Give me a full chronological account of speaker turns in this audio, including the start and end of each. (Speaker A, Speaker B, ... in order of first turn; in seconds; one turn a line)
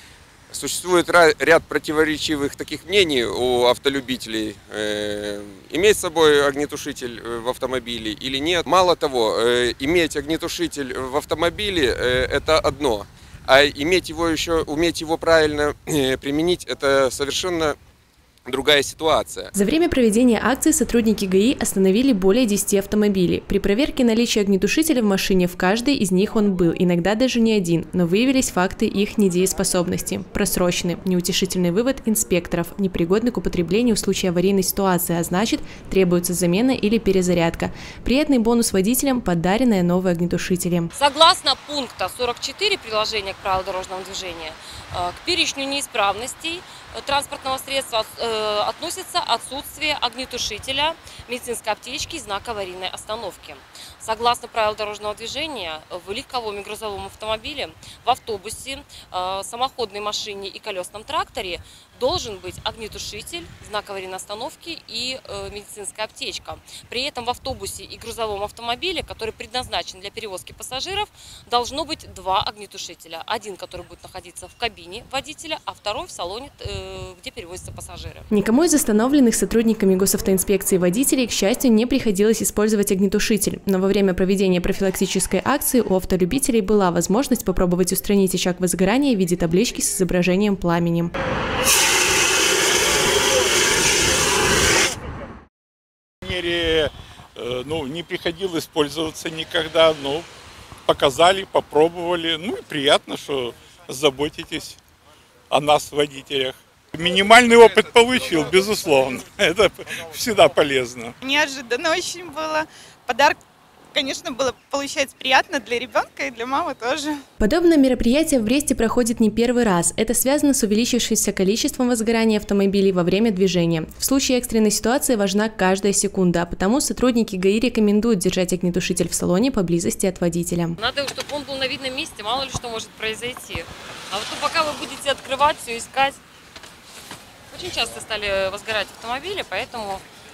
Speaker A: 0.5-17.8
Speaker A: 18.5-19.5
Speaker B: 19.5-40.9
Speaker C: 41.0-78.3
Speaker B: 78.3-91.1
Speaker D: 96.2-100.3
Speaker D: 100.9-104.8
Speaker D: 105.5-111.1
Speaker E: 111.5-112.5
Speaker E: 113.9-117.0
Speaker B: 117.4-130.8
Speaker C: 130.8-136.2
Speaker C: 137.5-140.0